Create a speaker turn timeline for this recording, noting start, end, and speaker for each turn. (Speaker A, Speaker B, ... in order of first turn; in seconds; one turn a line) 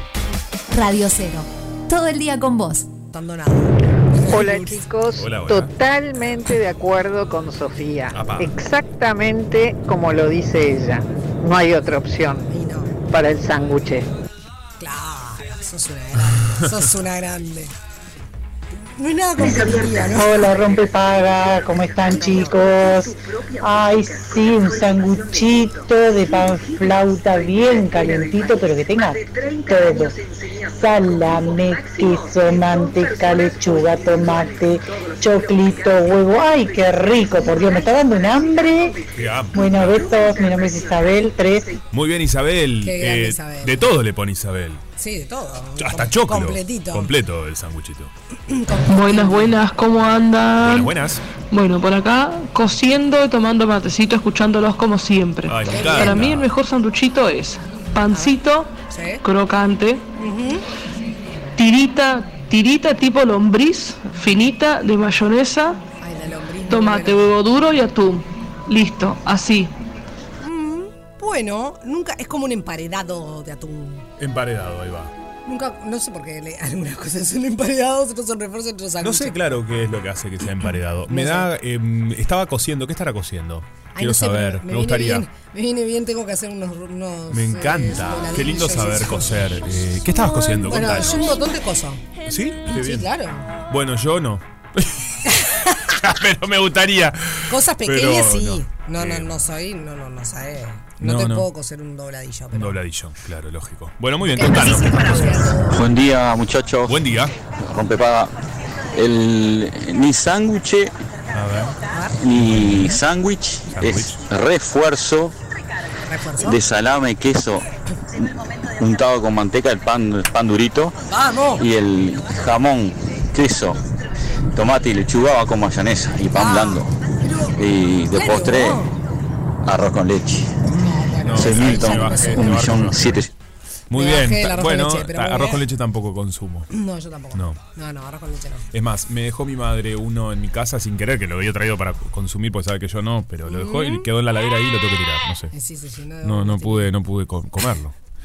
Speaker A: 0.7-2.9
Speaker B: 3.1-4.9
Speaker C: 4.3-12.5
Speaker D: 5.1-5.7
Speaker D: 8.1-8.5
Speaker B: 12.5-13.0
Speaker C: 13.1-14.1
Speaker B: 14.8-17.7
Speaker B: 19.0-20.3
Speaker E: 19.4-30.1
Speaker E: 30.7-39.0
Speaker D: 39.1-40.0
Speaker E: 39.5-41.8
Speaker D: 41.9-44.8
Speaker B: 42.8-43.9
Speaker B: 45.0-47.1
Speaker D: 45.8-48.1
Speaker B: 48.5-49.5
Speaker F: 48.9-50.9
Speaker D: 50.6-51.2
Speaker F: 51.5-60.0
Speaker D: 55.5-56.5
Speaker B: 55.6-56.2
Speaker B: 58.1-58.4
Speaker B: 58.9-59.2
Speaker B: 60.2-60.6
Speaker F: 61.5-65.8
Speaker B: 66.0-67.3
Speaker F: 66.7-69.7
Speaker B: 70.4-74.1
Speaker D: 74.2-75.1
Speaker B: 75.5-79.4
Speaker D: 79.0-85.2
Speaker B: 81.1-81.5
Speaker B: 83.9-89.4
Speaker D: 87.3-91.4
Speaker B: 90.7-92.0
Speaker D: 92.2-93.1
Speaker B: 92.7-93.5
Speaker D: 93.7-99.3
Speaker B: 95.2-96.0
Speaker B: 97.5-102.8
Speaker D: 101.0-101.5
Speaker D: 102.5-105.6
Speaker B: 104.3-105.9
Speaker G: 105.6-107.0
Speaker D: 106.9-107.3
Speaker G: 107.5-108.3
Speaker G: 108.9-110.9
Speaker D: 111.3-111.8
Speaker B: 111.9-112.2
Speaker G: 112.2-115.3
Speaker D: 112.3-113.0
Speaker D: 113.7-114.2
Speaker B: 116.1-116.6
Speaker G: 116.4-117.6
Speaker G: 118.8-120.9
Speaker B: 121.1-121.6
Speaker G: 121.6-123.8
Speaker G: 124.5-126.9
Speaker B: 126.3-126.8
Speaker G: 127.5-128.8
Speaker B: 128.1-128.9
Speaker G: 129.6-130.6
Speaker D: 130.7-133.3
Speaker B: 130.7-132.8
Speaker G: 131.3-133.3
Speaker D: 133.9-136.7
Speaker B: 133.9-135.6
Speaker B: 136.7-138.7
Speaker D: 137.3-137.6
Speaker D: 138.7-145.5
Speaker B: 143.5-144.1
Speaker B: 145.5-146.9
Speaker D: 146.2-147.9